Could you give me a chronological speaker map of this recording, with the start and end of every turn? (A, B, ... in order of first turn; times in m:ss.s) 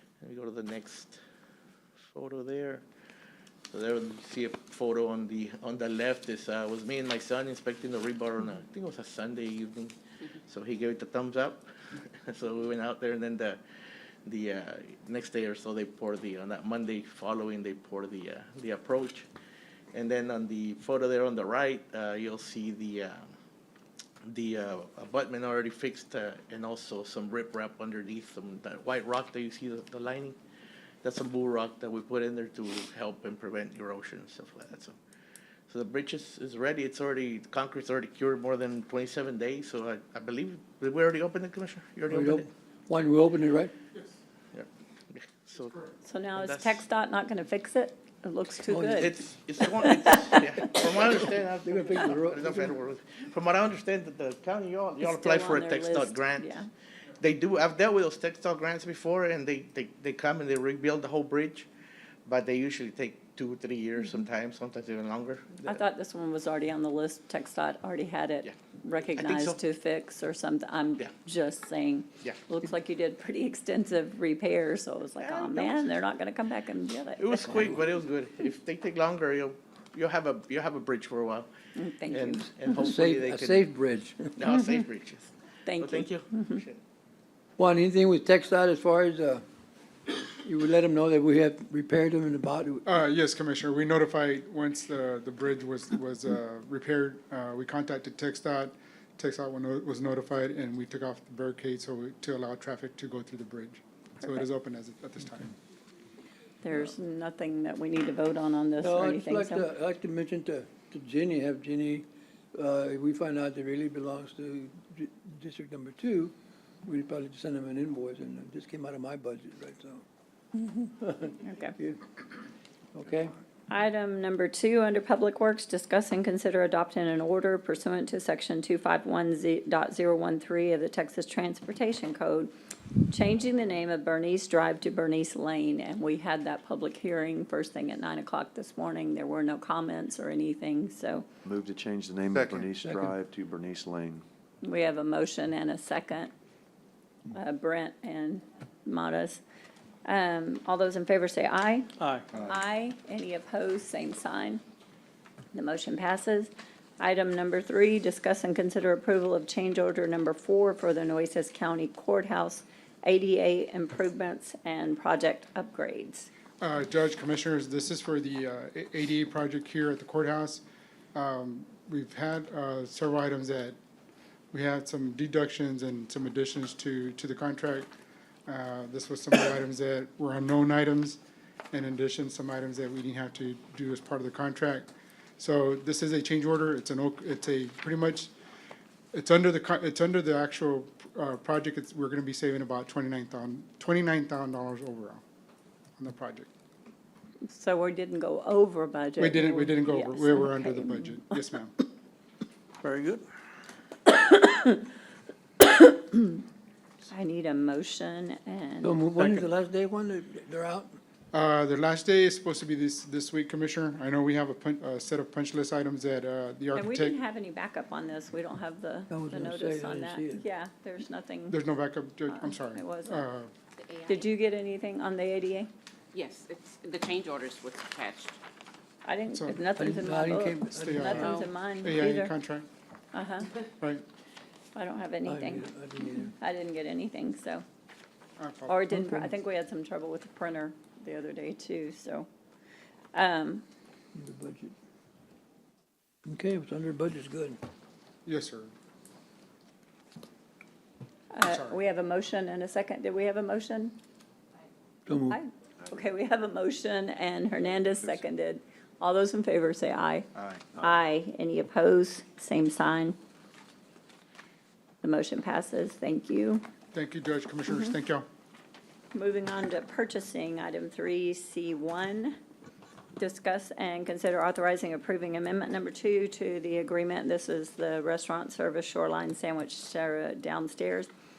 0:00.2-0:01.2 A
0:02.1-0:02.8 A
0:03.7-0:13.6 A
0:14.2-0:19.3 A
0:19.9-0:23.3 A
0:24.2-0:30.4 A
0:31.0-0:35.0 A
0:35.7-0:42.5 A
0:42.1-0:43.7 B
0:44.5-0:45.8 A
0:46.0-0:50.8 C
0:46.4-0:46.8 A
0:48.7-0:49.1 B
0:48.8-0:56.6 A
0:51.0-0:52.8 B
0:55.0-0:56.7 C
0:57.2-1:01.7 A
1:02.3-1:05.8 A
1:05.6-1:17.8 C
1:09.2-1:09.6 A
1:15.2-1:16.0 A
1:17.2-1:21.5 A
1:21.8-1:22.9 C
1:22.1-1:23.7 A
1:22.8-1:24.4 B
1:24.3-1:26.8 A
1:25.7-1:26.6 C
1:27.6-1:29.4 B
1:30.3-1:32.8 B
1:32.8-1:45.6 D
1:46.6-1:49.7 C
1:48.8-2:00.0 B
2:00.6-2:00.9 C
2:01.0-2:02.2 B
2:01.4-2:01.8 C
2:03.0-2:03.3 B
2:03.7-2:12.5 C
2:13.1-2:21.3 C
2:21.4-2:24.2 E
2:22.8-2:23.1 B
2:24.6-2:26.3 C
2:27.3-2:29.4 C
2:30.1-2:34.6 C
2:35.5-2:46.3 C
2:46.6-2:50.6 D
2:51.2-2:53.8 D
2:54.5-2:57.9 D
2:58.5-3:01.2 D
3:01.7-3:08.3 D
3:09.1-3:15.2 D
3:16.0-3:16.5 D
3:17.5-3:21.4 C
3:19.2-3:21.7 D
3:24.1-3:24.8 C
3:25.6-3:26.4 C
3:27.1-3:29.4 C
3:28.8-3:31.0 B
3:31.3-3:37.2 D
3:36.7-3:41.6 C
3:39.1-3:40.4 B
3:41.5-3:43.5 D
3:42.3-3:43.2 C
3:44.1-3:45.7 C
3:46.1-3:48.4 F
3:49.0-3:52.3 C
3:49.3-3:49.6 D
3:49.8-3:51.4 B
3:50.8-3:52.7 D
3:51.2-3:51.5 F
3:53.1-3:53.5 C
3:54.8-3:57.6 C
3:55.3-3:56.3 B
3:58.4-3:58.8 D
3:58.7-4:02.3 C
3:58.9-3:59.3 B
4:03.1-4:03.6 C
4:04.2-4:04.8 B
4:06.2-4:07.6 B
4:08.3-4:08.7 D
4:11.3-4:14.0 C
4:11.5-4:11.8 D
4:15.1-4:15.4 B
4:15.3-4:23.2 C
4:25.0-4:26.6 C
4:26.9-4:28.3 D
4:27.7-4:27.9 C
4:29.1-4:32.4 C
4:33.2-4:41.1 C